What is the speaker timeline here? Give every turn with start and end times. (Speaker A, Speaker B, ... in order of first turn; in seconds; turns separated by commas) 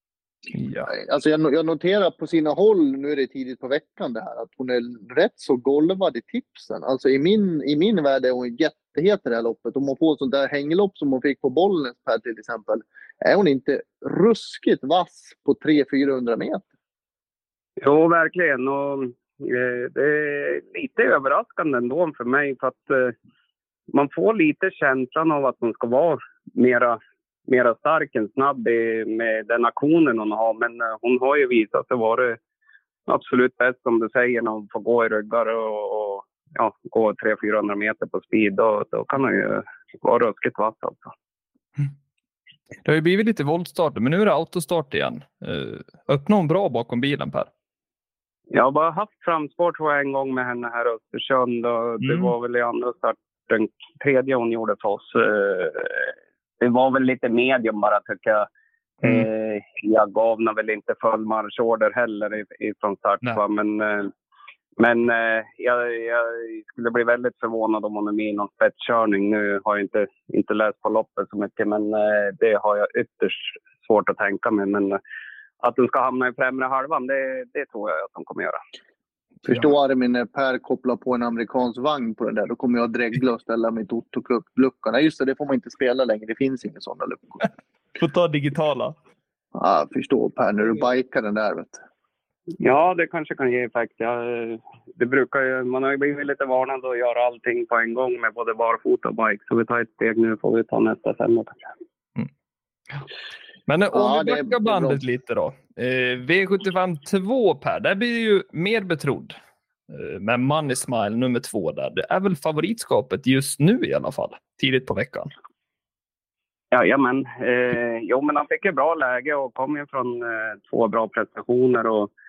Speaker A: 0.5-0.9, Speaker B: 0.9-16.7, Speaker C: 17.8-23.1, Speaker C: 23.9-32.4, Speaker C: 33.1-41.1, Speaker A: 42.9-47.5, Speaker C: 48.5-58.5, Speaker A: 52.0-52.3, Speaker C: 59.0-64.1, Speaker C: 64.8-75.0, Speaker C: 75.6-78.6, Speaker B: 79.5-87.5, Speaker A: 88.0-89.0, Speaker B: 89.5-91.8, Speaker C: 92.6-101.6, Speaker A: 103.7-109.4, Speaker B: 103.9-105.0, Speaker A: 109.9-115.3, Speaker C: 116.7-122.1